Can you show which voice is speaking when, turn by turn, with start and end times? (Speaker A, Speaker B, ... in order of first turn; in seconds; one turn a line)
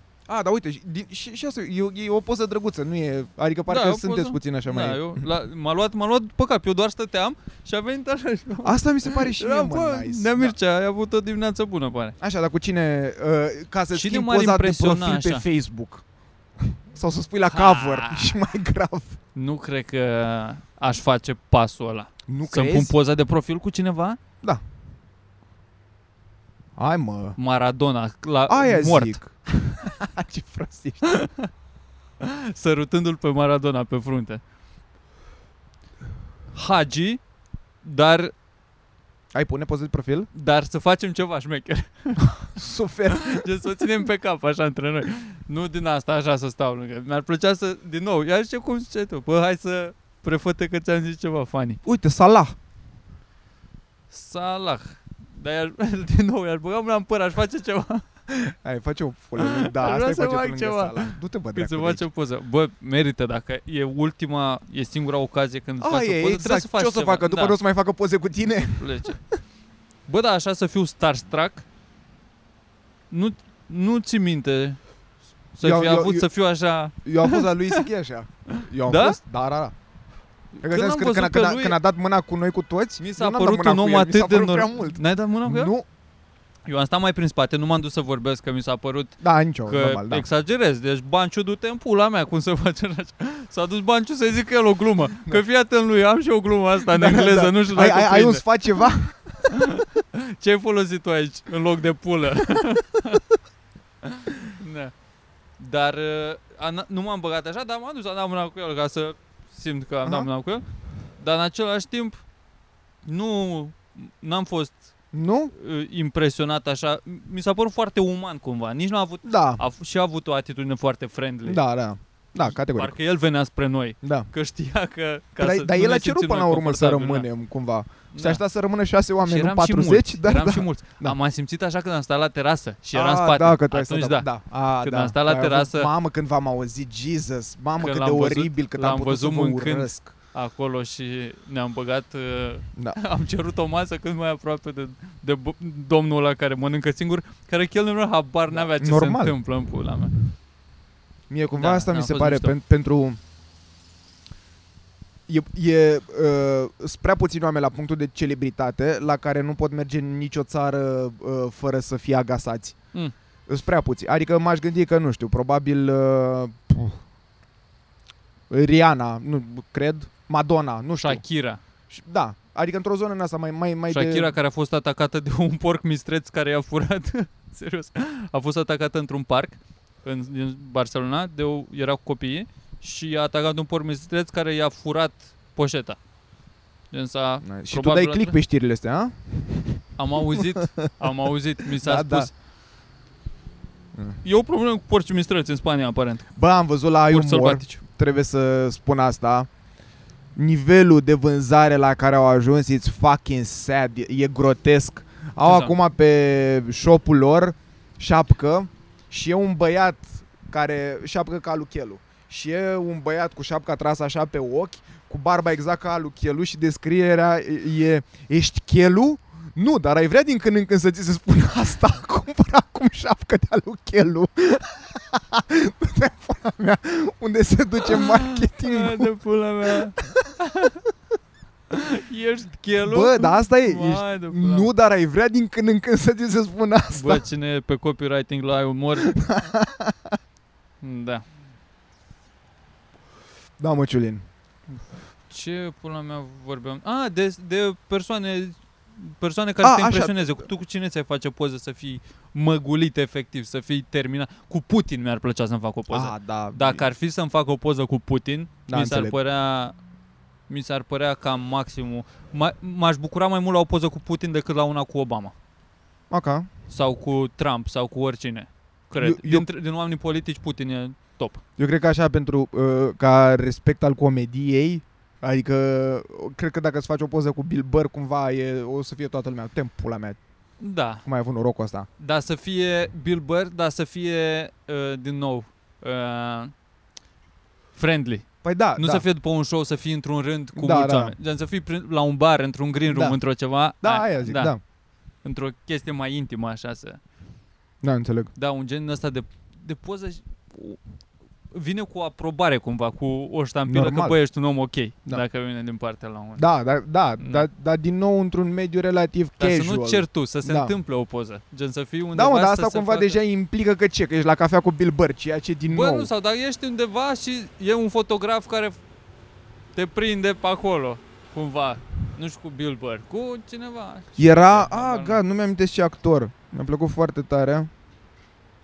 Speaker A: 0.3-5.3
Speaker B: 3.7-12.2
Speaker A: 8.6-10.6
Speaker A: 12.2-16.0
Speaker B: 13.9-15.4
Speaker A: 16.6-19.2
Speaker B: 17.5-18.4
Speaker B: 19.4-24.2
Speaker A: 22.3-22.9
Speaker A: 26.8-27.4
Speaker B: 27.4-29.2
Speaker A: 28.5-31.1
Speaker B: 31.0-31.5
Speaker B: 32.2-34.4
Speaker B: 36.5-37.2
Speaker B: 37.8-38.3
Speaker A: 39.3-40.3
Speaker B: 40.3-42.3
Speaker A: 42.2-43.9
Speaker B: 43.1-51.8
Speaker A: 51.8-52.5
Speaker B: 54.1-58.0
Speaker A: 58.3-62.0
Speaker B: 59.4-67.6
Speaker A: 65.8-69.2
Speaker B: 68.8-69.2
Speaker B: 70.1-71.7
Speaker B: 73.1-74.8
Speaker B: 75.5-77.8
Speaker A: 75.6-76.3
Speaker A: 77.0-79.7
Speaker B: 78.5-79.2
Speaker B: 80.6-81.8
Speaker A: 80.6-85.9
Speaker B: 83.0-85.7
Speaker B: 86.7-98.4
Speaker A: 89.2-90.2
Speaker A: 96.8-99.6
Speaker B: 99.5-103.2
Speaker B: 104.0-104.9
Speaker B: 105.6-110.7
Speaker B: 111.2-112.2
Speaker B: 113.0-114.9
Speaker A: 115.1-115.5
Speaker B: 115.5-121.6
Speaker A: 119.2-119.6
Speaker A: 121.5-123.0
Speaker B: 122.4-127.3
Speaker A: 124.0-124.3
Speaker A: 125.4-131.2
Speaker B: 128.1-128.4
Speaker B: 129.2-134.3
Speaker A: 132.9-140.1
Speaker B: 134.8-135.9
Speaker B: 137.8-150.2
Speaker A: 148.5-149.4
Speaker A: 151.3-153.2
Speaker B: 151.6-152.6
Speaker A: 155.3-162.8
Speaker A: 163.5-167.0
Speaker A: 168.5-171.2
Speaker B: 171.0-171.6
Speaker A: 171.9-174.3
Speaker B: 173.9-186.0
Speaker B: 186.9-188.3
Speaker A: 187.4-190.9
Speaker B: 190.0-192.3
Speaker A: 191.7-192.3
Speaker B: 194.2-196.3
Speaker A: 196.4-199.5
Speaker B: 197.1-197.8
Speaker A: 200.4-229.1
Speaker B: 205.4-205.8
Speaker B: 227.9-230.8
Speaker A: 229.7-230.3
Speaker B: 231.7-234.7
Speaker A: 232.8-237.3
Speaker B: 236.9-239.2
Speaker A: 239.0-240.2
Speaker B: 240.8-241.2
Speaker A: 243.6-244.2
Speaker B: 244.7-259.8
Speaker A: 249.6-250.5
Speaker A: 255.9-256.9
Speaker A: 258.7-259.2
Speaker B: 260.5-265.3
Speaker A: 266.1-266.5
Speaker B: 266.7-271.4
Speaker A: 269.0-269.5
Speaker A: 271.6-280.2
Speaker B: 280.6-281.0
Speaker A: 281.1-281.9
Speaker B: 282.0-286.5
Speaker B: 287.8-288.3
Speaker A: 288.4-289.0
Speaker B: 288.8-294.5
Speaker A: 290.6-291.1
Speaker A: 292.9-293.2
Speaker A: 293.8-294.6
Speaker B: 295.2-297.0
Speaker A: 297.8-298.3
Speaker B: 298.4-300.8
Speaker B: 301.5-306.4
Speaker A: 303.7-304.2
Speaker A: 306.4-310.7
Speaker B: 307.2-307.5
Speaker B: 309.4-313.2
Speaker A: 312.1-316.1
Speaker B: 315.7-318.8
Speaker B: 319.8-325.2
Speaker A: 324.2-327.7